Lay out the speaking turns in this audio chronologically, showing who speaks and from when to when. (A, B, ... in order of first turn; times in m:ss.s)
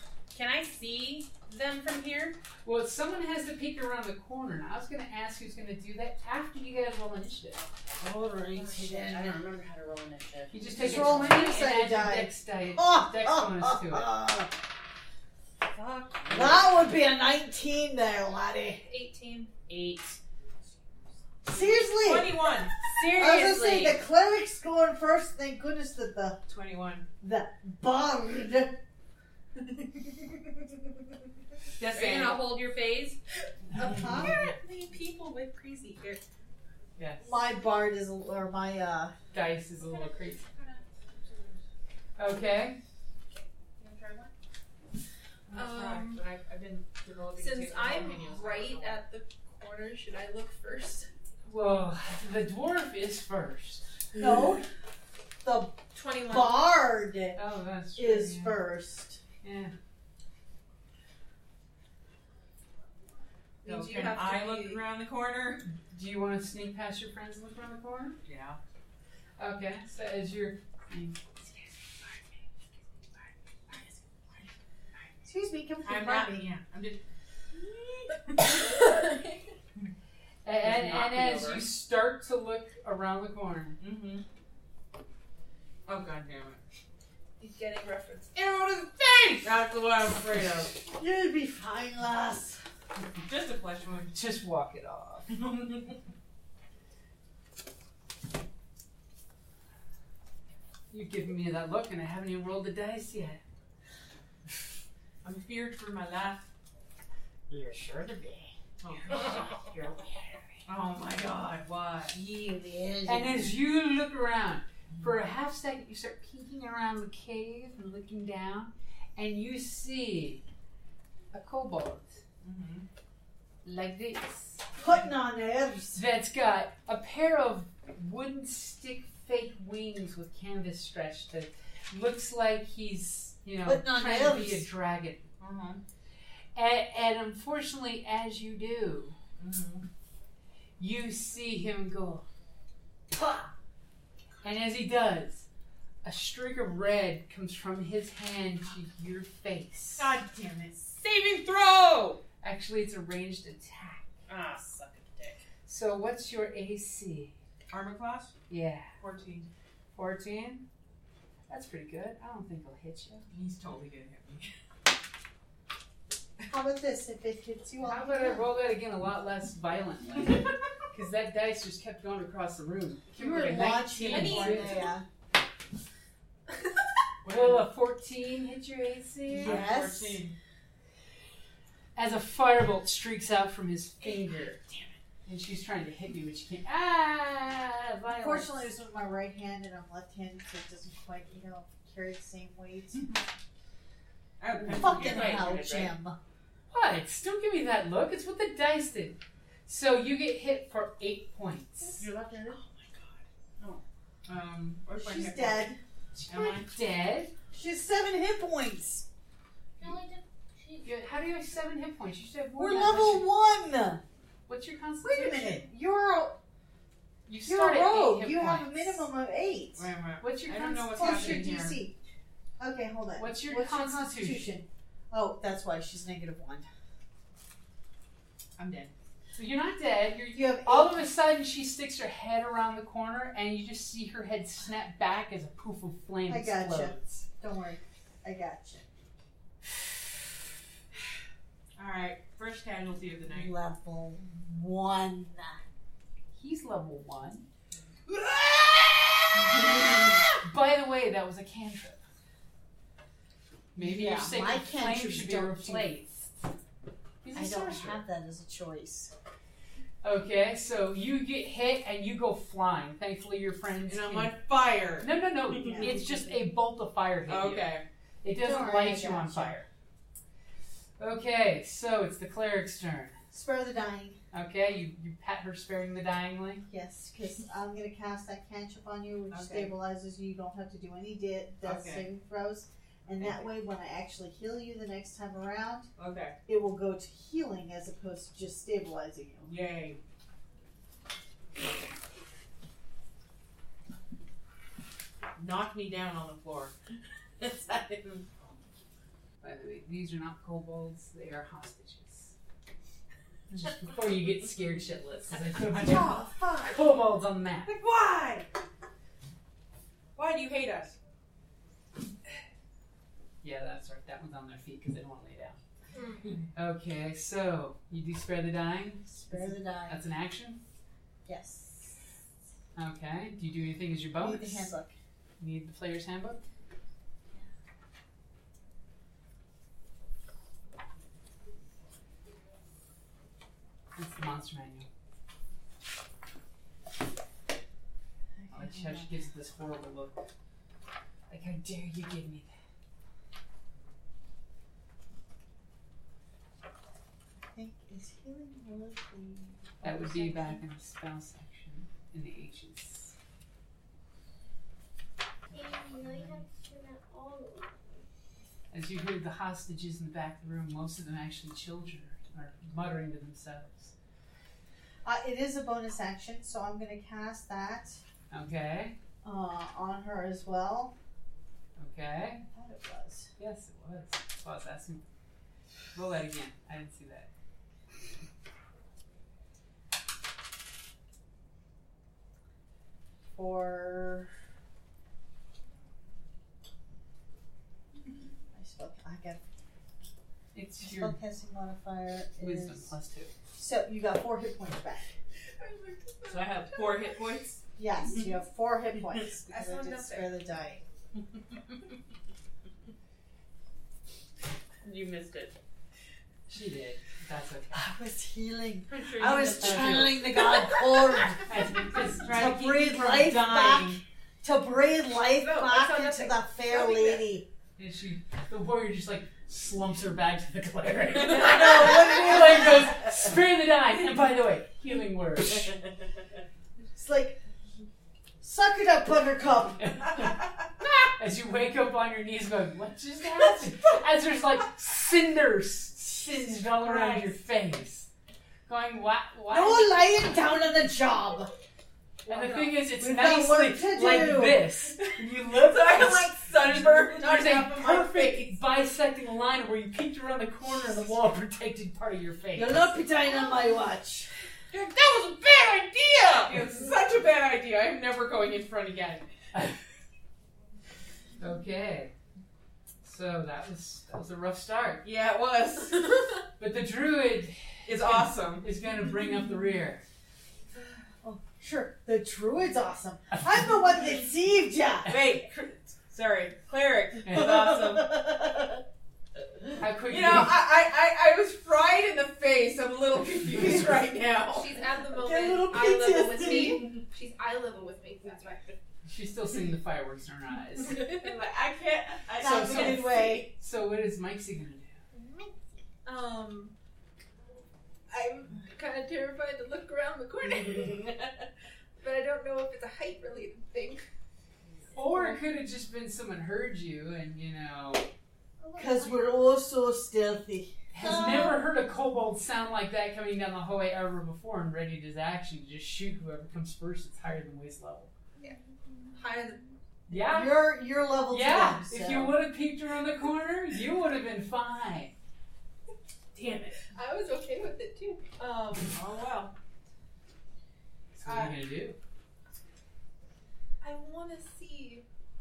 0:00.3-0:02.4 A
0:02.6-0:07.7 B
0:08.0-0:09.4 C
0:08.5-0:11.4 A
0:10.5-0:14.1 B
0:10.8-0:14.5 C
0:15.7-0:16.7 A
0:16.3-0:18.8 C
0:18.8-0:19.5 D
0:19.7-0:20.2 A
0:21.4-0:26.4 C
0:21.6-0:22.9 E
0:22.9-0:24.0 A
0:26.5-0:27.1 E
0:27.2-0:28.8 C
0:31.8-0:32.4 E
0:31.8-0:33.2 A
0:33.7-0:36.2 D
0:33.8-0:34.5 C
0:37.0-0:37.3 B
0:37.2-0:39.2 C
0:39.3-0:40.4 B
0:39.9-0:40.8 D
0:42.2-0:42.8 B
0:45.5-0:49.0 E
0:45.5-0:46.2 D
0:47.4-0:51.1 D
0:51.4-0:53.9 B
0:54.1-0:54.6 C
0:55.4-0:57.4 C
0:55.9-0:56.6 D
0:57.4-0:58.6 B
0:58.0-0:59.2 C
0:59.4-0:59.7 B
1:03.6-1:04.8 D
1:03.6-1:05.7 E
1:05.8-1:08.2 B
1:08.2-1:08.6 E
1:09.4-1:11.2 B
1:13.7-1:14.5 E
1:15.2-1:16.5 C
1:15.8-1:17.0 E
1:17.9-1:18.5 E
1:18.1-1:19.5 D
1:20.4-1:23.8 B
1:20.6-1:21.6 A
1:23.8-1:24.2 E
1:25.9-1:26.6 E
1:27.4-1:28.4 D
1:28.4-1:30.8 E
1:30.9-1:32.6 C
1:33.3-1:34.2 E
1:34.1-1:35.4 B
1:35.3-1:36.0 E
1:40.9-1:43.4 B
1:45.2-1:46.5 E
1:48.8-1:50.0 E
1:49.1-1:49.7 A
1:50.7-1:52.2 E
1:52.2-1:53.2 A
1:53.1-2:00.4 B
1:54.9-1:55.2 E
2:01.3-2:02.2 B
2:02.4-2:02.9 E
2:03.6-2:04.6 B
2:04.8-2:06.0 C
2:05.9-2:15.3 B
2:13.6-2:14.7 C
2:15.4-2:15.8 E
2:16.6-2:19.2 B
2:19.4-2:19.8 E
2:20.8-2:22.2 B
2:23.1-2:23.5 C
2:24.4-2:25.5 B
2:26.0-2:30.2 B
2:30.0-2:32.2 E
2:32.4-2:34.1 B
2:34.3-2:35.4 A
2:35.7-2:37.3 B
2:37.7-2:38.3 E
2:38.5-2:38.9 B
2:39.0-2:39.5 E
2:40.0-2:40.6 B
2:41.5-2:43.3 B
2:43.3-2:44.5 E
2:46.5-2:48.5 C
2:47.8-2:54.9 B
2:53.2-2:55.0 C
2:54.1-2:54.9 D
2:57.2-2:57.7 E
2:57.3-2:59.6 B
2:59.3-3:00.2 C
2:59.3-3:00.4 E
3:02.0-3:04.6 B
3:05.3-3:08.7 B
3:08.1-3:13.2 C
3:14.4-3:15.6 E
3:14.5-3:16.2 C
3:14.8-3:16.0 A
3:16.7-3:22.0 B
3:22.0-3:25.7 E
3:22.1-3:22.6 A
3:25.0-3:25.8 C
3:26.1-3:27.3 B
3:26.3-3:26.7 E
3:27.5-3:29.1 C
3:30.8-3:33.3 B
3:32.6-3:34.0 C
3:34.5-3:35.6 B
3:35.0-3:36.4 C
3:37.3-3:39.1 B
3:37.4-3:39.9 C
3:39.8-3:41.8 E
3:40.2-3:41.6 B
3:41.0-3:41.9 C
3:42.6-3:46.7 C
3:43.2-3:44.5 B
3:48.6-3:48.9 E
3:49.3-3:57.0 B
3:50.3-3:51.0 C
3:56.3-3:58.9 C
4:01.8-4:03.6 E
4:03.3-4:05.6 C
4:06.4-4:07.5 B
4:09.6-4:09.9 E
4:10.4-4:12.0 B
4:13.8-4:16.3 B
4:13.8-4:16.0 C
4:17.2-4:18.0 B
4:17.3-4:19.1 C
4:20.0-4:24.4 B
4:23.8-4:25.9 E
4:24.9-4:29.7 B
4:25.6-4:26.4 C
4:27.3-4:27.8 E
4:28.3-4:29.6 C
4:31.0-4:33.2 B
4:33.3-4:34.2 C
4:34.3-4:36.6 B
4:36.7-4:45.9 C
4:39.3-4:39.7 E
4:41.6-4:42.1 E
4:43.2-4:43.5 E
4:46.0-4:46.4 E
4:46.4-4:49.6 C
4:49.4-4:50.0 E
4:55.4-4:56.8 E
4:57.4-4:58.3 E
4:59.4-5:02.3 B
5:03.5-5:07.7 B
5:05.7-5:06.8 C
5:07.6-5:08.5 E
5:10.2-5:11.0 E
5:13.4-5:15.6 B
5:15.9-5:16.3 D
5:16.6-5:20.6 B
5:19.1-5:20.0 C
5:21.2-5:22.0 C
5:22.8-5:24.8 B
5:24.2-5:25.0 C
5:25.4-5:26.4 B
5:34.0-5:34.9 B
5:38.4-5:39.1 C
5:38.5-5:40.2 B
5:41.3-5:42.5 B
5:47.4-5:50.6 C
5:49.8-5:53.1 B
5:55.5-5:57.9 F
5:58.7-6:03.9 B
6:05.0-6:08.0 C
6:08.3-6:09.0 B
6:09.2-6:11.0 C
6:11.8-6:12.4 B
6:12.5-6:13.3 C
6:13.4-6:15.0 B
6:15.9-6:17.3 B
6:23.3-6:24.3 C
6:28.5-6:29.4 C
6:30.5-6:31.2 B
6:30.8-6:32.9 C
6:32.4-6:33.3 B
6:33.6-6:35.1 C
6:35.6-6:37.2 D
6:36.3-6:37.6 E
6:37.8-6:40.8 C
6:39.5-6:40.3 D
6:44.8-6:45.6 A
6:46.5-6:47.8 B
6:47.7-6:51.7 C
6:49.1-6:49.8 E
6:49.2-6:50.2 B
6:49.5-6:50.1 A
6:51.5-6:54.0 B
6:52.2-6:57.5 C
6:55.4-6:57.3 D
6:57.8-7:05.8 B
7:01.3-7:02.9 C
7:06.9-7:07.4 C
7:08.4-7:10.3 C
7:09.8-7:18.1 B
7:16.6-7:17.4 E
7:18.7-7:20.2 B
7:19.5-7:21.5 C
7:22.3-7:33.0 B
7:22.3-7:22.7 E
7:22.8-7:24.7 C
7:25.0-7:28.6 E
7:32.5-7:34.3 C
7:34.7-7:39.3 E
7:41.4-7:42.1 B
7:43.0-7:45.0 B
7:45.0-7:46.2 E
7:46.6-7:50.0 B
7:47.9-7:48.7 E
7:51.2-7:55.2 C
7:55.0-7:58.4 E
7:57.2-7:57.6 B
7:57.3-7:58.8 C
7:59.8-8:00.6 B
8:00.1-8:04.7 E
8:04.5-8:08.7 D
8:05.1-8:06.9 C
8:09.0-8:11.1 B
8:11.1-8:13.5 E
8:12.4-8:13.5 C
8:12.4-8:15.0 B
8:15.1-8:15.4 D
8:16.0-8:16.7 D
8:18.1-8:21.4 D
8:22.0-8:24.1 D
8:24.9-8:28.1 B
8:28.6-8:29.1 D
8:28.8-8:31.6 C
8:30.9-8:38.1 B
8:39.1-8:39.6 D
8:40.1-8:40.7 B
8:40.1-8:42.4 C
8:41.3-8:45.1 B
8:46.4-8:46.7 E
8:46.9-8:49.0 D
8:48.8-8:49.5 E
8:51.2-8:52.0 B
8:51.3-8:51.5 E
8:53.8-8:55.0 D